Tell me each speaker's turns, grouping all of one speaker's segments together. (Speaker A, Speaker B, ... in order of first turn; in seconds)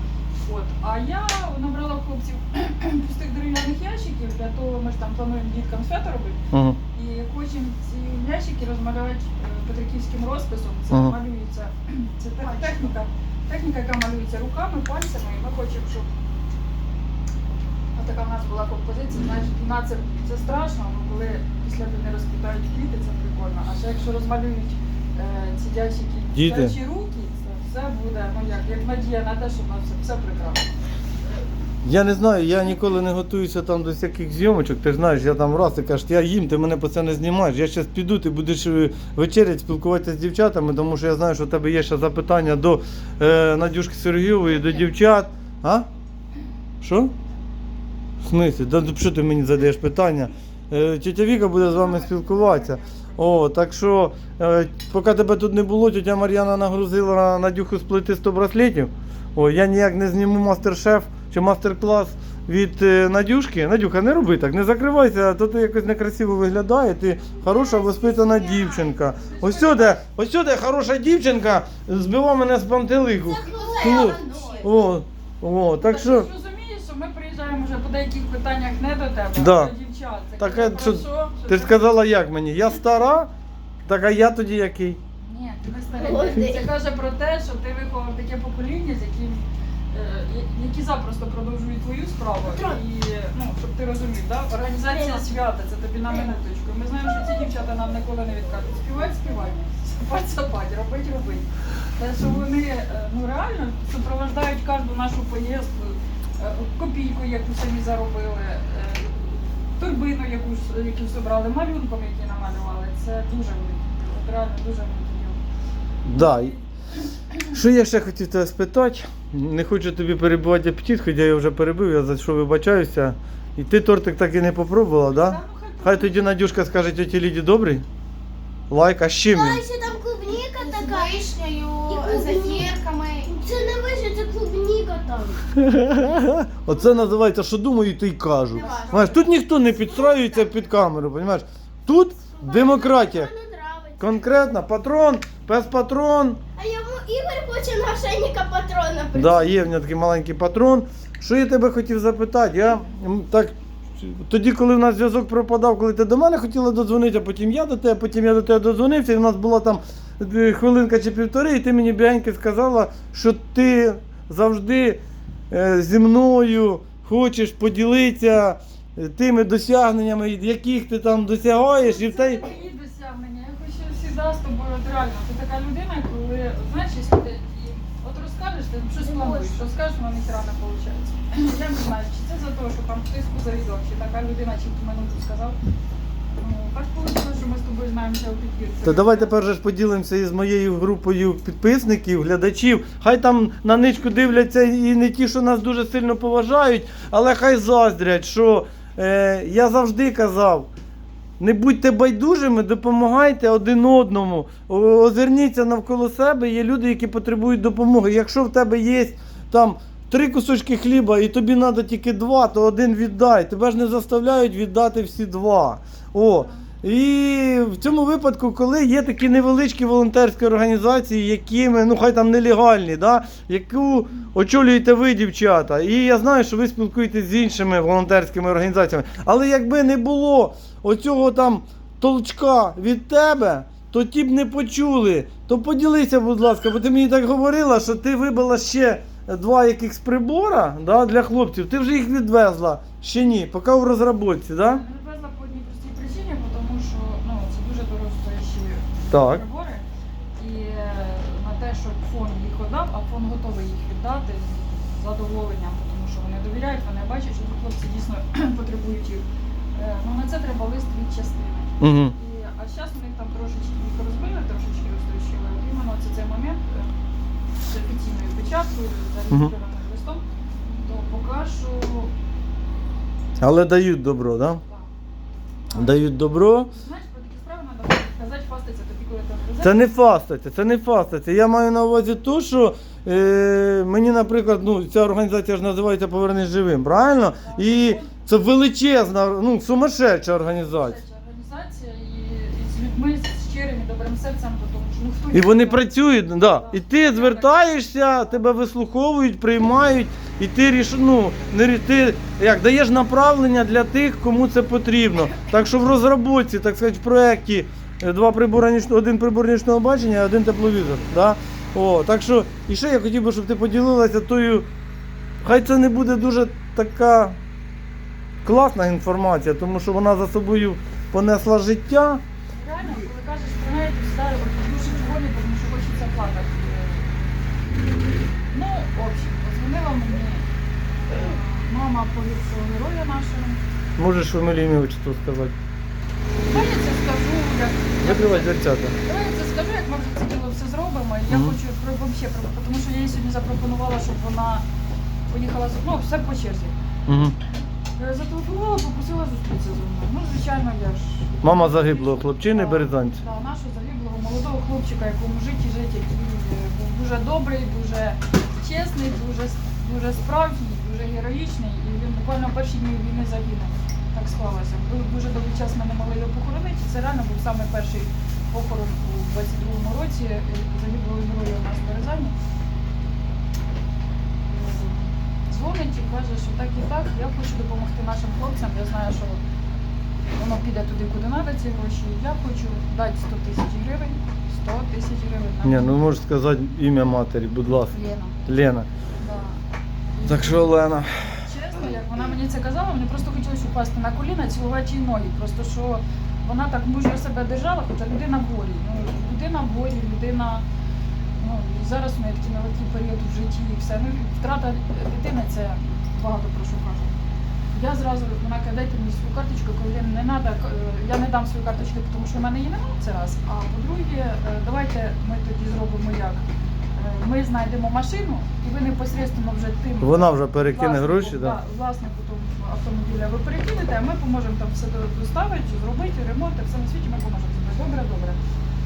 Speaker A: 0.4-6.4, 6.9-16.1, 17.9-30.7, 51.5-53.2, 69.0-70.0, 75.8-81.9, 85.2-115.4, 116.1-116.6, 125.1-126.3, 138.6-139.1, 171.8-185.6, 186.4-189.3, 244.6-249.8, 250.4-266.9, 267.6-272.1, 275.6-279.9, 287.4-288.1, 290.5-297.7, 322.5-327.1, 328.5-330.4, 331.1-333.6, 336.4-344.6, 345.3-346.7, 348.0-372.3, 374.5-379.4, 380.4-386.0, 387.9-388.3, 389.2-389.6, 390.1-400.6, 401.4-407.1, 407.7-428.4
Speaker B: 6.5-6.8, 10.9-11.2, 26.3-26.7, 31.8-45.9, 46.8-47.1, 48.2-76.3, 79.3-79.7, 80.4-83.3, 83.8-85.0, 116.0-116.5, 117.5-127.8, 128.7-129.6, 135.6-143.3, 144.0-146.4, 149.1-165.0, 165.5-172.4, 188.8-200.7, 201.4-244.8, 249.1-249.4, 261.8-262.1, 273.4-274.6, 275.7-276.7, 279.6-291.0, 295.3-314.7, 315.4-317.4, 318.4-322.2, 334.0-335.5, 338.0-339.0, 341.3-341.6, 347.1-347.4, 351.4-353.2, 385.6-388.9, 390.2-391.2, 420.0-421.6
Speaker C: 67.7-68.9, 73.2-74.7, 85.9-86.7, 92.5-92.8, 94.9-95.3, 129.3-131.3, 131.9-135.4, 138.6-139.1, 139.7-140.6, 142.3-144.2, 146.6-149.6, 179.0-179.6
Speaker D: 73.4-74.6, 130.4-133.3, 138.6-139.0